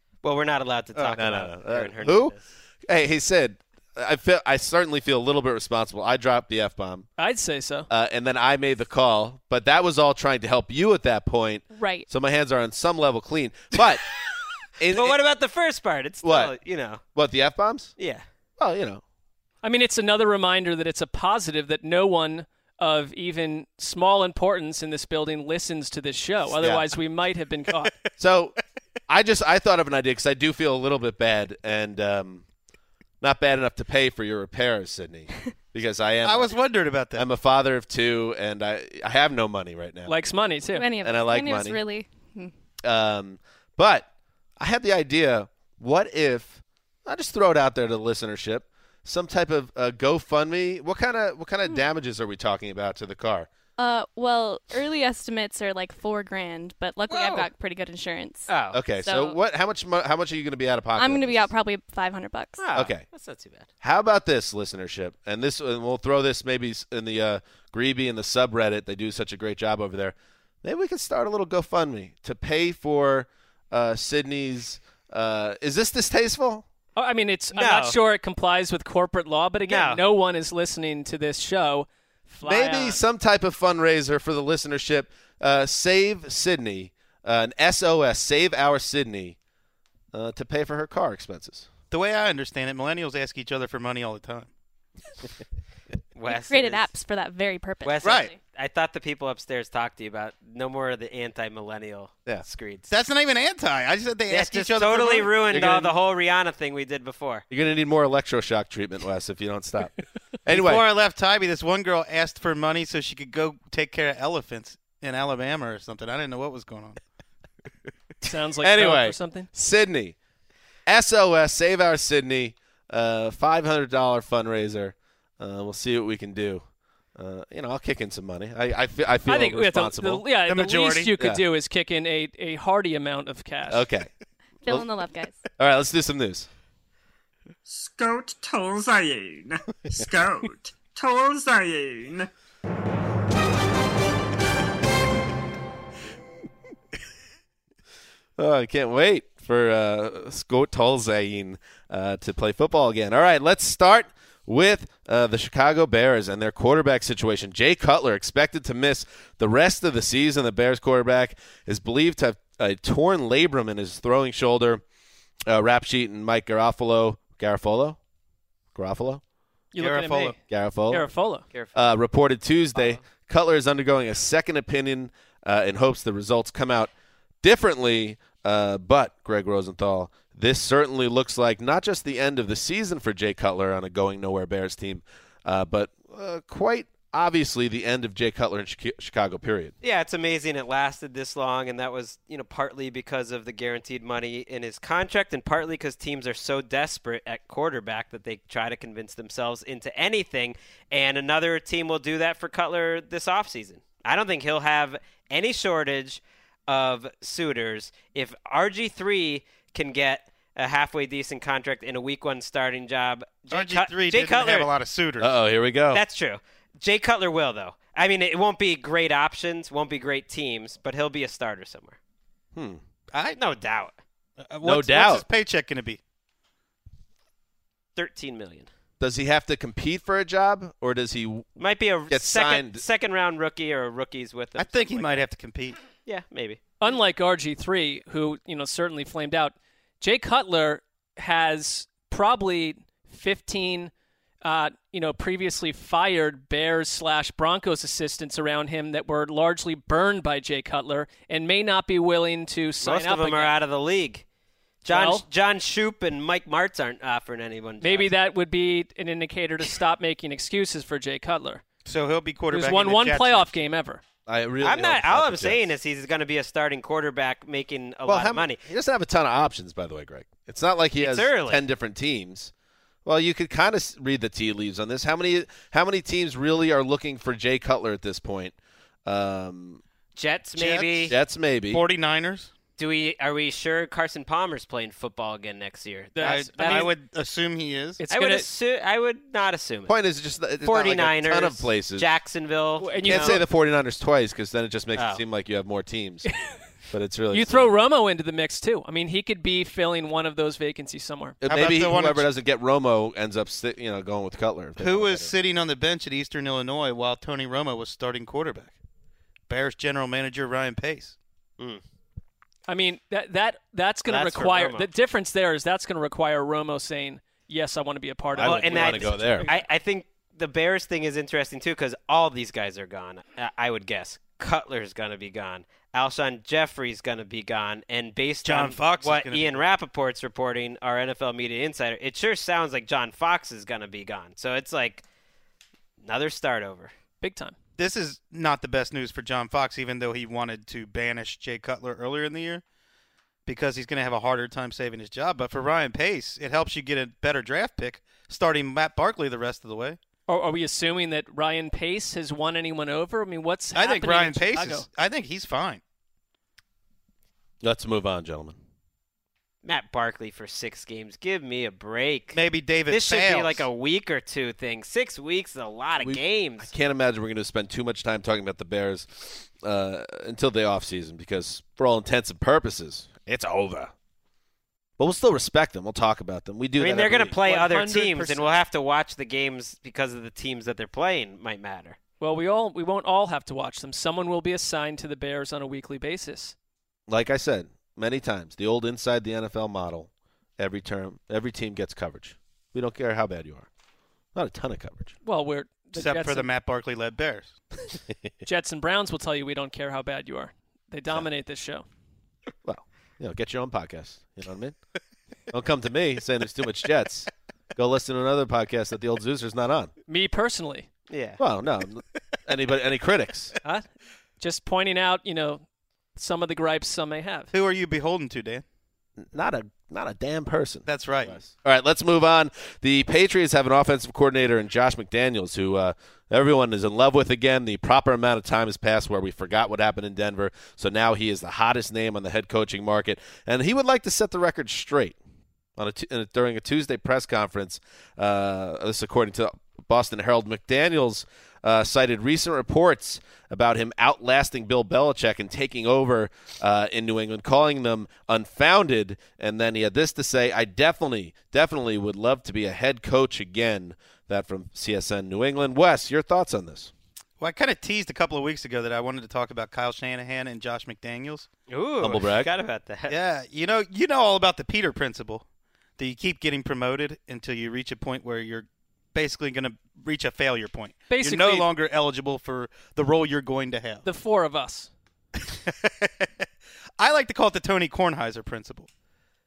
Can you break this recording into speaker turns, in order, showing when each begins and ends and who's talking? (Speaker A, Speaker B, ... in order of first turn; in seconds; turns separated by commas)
Speaker A: 0.2-2.4, Speaker B: 0.9-7.1, Speaker C: 7.2-7.9, Speaker B: 7.9-14.1, Speaker D: 11.7-12.1, Speaker B: 14.8-15.2, Speaker A: 14.9-17.0, Speaker B: 16.2-16.5, Speaker B: 17.1-17.9, Speaker A: 18.0-18.2, Speaker B: 18.6-19.0, Speaker C: 19.6-27.9, Speaker B: 26.6-26.9, Speaker B: 28.2-28.5, Speaker B: 29.1-32.5, Speaker B: 33.2-36.5, Speaker E: 36.2-37.2, Speaker B: 37.1-40.1, Speaker C: 40.1-40.9, Speaker D: 40.7-42.5, Speaker B: 41.0-41.8, Speaker B: 42.8-53.5, Speaker D: 53.8-59.4, Speaker A: 58.5-58.8, Speaker B: 58.7-61.5, Speaker D: 61.0-62.6, Speaker A: 62.6-63.7, Speaker B: 62.7-63.0, Speaker B: 63.8-76.7, Speaker C: 77.0-83.0, Speaker A: 77.5-78.0, Speaker A: 79.7-80.0, Speaker B: 82.4-89.4, Speaker B: 90.1-91.7, Speaker E: 91.9-94.5, Speaker A: 96.1-96.9, Speaker D: 96.3-98.4, Speaker A: 97.8-102.9, Speaker E: 98.0-98.3, Speaker E: 102.9-105.3, Speaker A: 104.3-107.4, Speaker B: 105.5-105.9, Speaker B: 107.5-110.8, Speaker E: 110.5-117.0, Speaker C: 118.2-119.5, Speaker B: 118.6-120.2, Speaker B: 120.8-130.3, Speaker C: 129.2-133.9, Speaker E: 130.4-131.1, Speaker B: 133.7-134.1, Speaker D: 134.6-135.4, Speaker B: 135.6-136.5, Speaker F: 137.6-142.3, Speaker B: 148.4-164.8, Speaker B: 165.5-168.0, Speaker B: 168.7-169.2, Speaker C: 169.7-171.4, Speaker E: 169.8-170.3, Speaker B: 170.5-171.1, Speaker A: 171.5-171.8, Speaker B: 171.7-176.9, Speaker A: 172.7-173.0, Speaker B: 177.4-189.7, Speaker A: 189.8-214.7, Speaker E: 213.5-215.3, Speaker B: 215.2-216.0, Speaker A: 215.9-222.0, Speaker B: 222.5-222.8, Speaker A: 223.3-223.9, Speaker E: 224.4-226.0, Speaker B: 224.6-225.2, Speaker A: 227.9-228.7, Speaker B: 229.0-231.5, Speaker A: 231.6-235.2, Speaker B: 232.1-232.8, Speaker E: 234.6-235.8, Speaker A: 236.0-236.6, Speaker C: 236.8-243.9, Speaker C: 244.4-253.5, Speaker A: 252.8-254.2, Speaker A: 254.8-258.1, Speaker C: 254.9-255.2, Speaker C: 257.8-261.6, Speaker E: 261.8-263.5, Speaker C: 262.5-264.0, Speaker B: 264.2-265.6, Speaker A: 264.6-268.6, Speaker B: 268.1-272.5, Speaker A: 271.0-271.6, Speaker B: 273.0-279.8, Speaker A: 280.1-281.1, Speaker E: 280.6-281.1, Speaker B: 281.1-281.8, Speaker E: 281.7-282.5, Speaker A: 282.8-286.9, Speaker C: 286.1-286.9, Speaker E: 286.2-288.0, Speaker C: 288.0-288.4, Speaker A: 288.1-289.9, Speaker B: 289.9-292.1, Speaker A: 290.6-293.4, Speaker C: 292.8-293.4, Speaker B: 293.0-296.3, Speaker A: 294.9-295.2, Speaker C: 296.3-296.6, Speaker B: 296.9-297.7, Speaker C: 297.3-301.4, Speaker B: 301.4-305.3, Speaker E: 301.4-302.3, Speaker E: 304.8-308.7, Speaker E: 309.5-311.1, Speaker C: 312.7-319.7, Speaker A: 314.1-314.9, Speaker A: 318.4-335.0, Speaker B: 318.4-319.5, Speaker E: 328.4-329.6, Speaker A: 336.0-336.9, Speaker C: 337.2-337.5, Speaker E: 337.8-342.6, Speaker E: 343.4-350.0, Speaker C: 350.3-354.9, Speaker E: 353.7-355.8, Speaker B: 357.6-358.6, Speaker A: 359.6-366.7, Speaker E: 362.3-363.6, Speaker B: 366.0-373.9, Speaker B: 375.0-377.4, Speaker A: 376.8-382.0, Speaker C: 377.4-378.5, Speaker C: 382.2-386.5, Speaker B: 387.1-393.7, Speaker B: 394.3-395.1, Speaker C: 395.2-396.5, Speaker E: 395.9-397.6, Speaker C: 398.4-401.8, Speaker B: 402.6-404.8, Speaker B: 405.5-409.9, Speaker C: 410.1-410.9, Speaker A: 411.1-411.4, Speaker B: 411.4-413.5, Speaker C: 414.4-415.6, Speaker C: 416.1-417.5, Speaker E: 417.5-418.6, Speaker B: 419.2-435.2, Speaker E: 420.9-421.4, Speaker B: 435.8-456.9, Speaker E: 457.4-461.5, Speaker A: 461.7-463.1, Speaker B: 462.0-462.5, Speaker E: 463.1-465.4, Speaker E: 466.0-474.0, Speaker C: 471.1-471.6, Speaker C: 474.0-474.9, Speaker E: 475.4-476.3, Speaker E: 477.0-478.9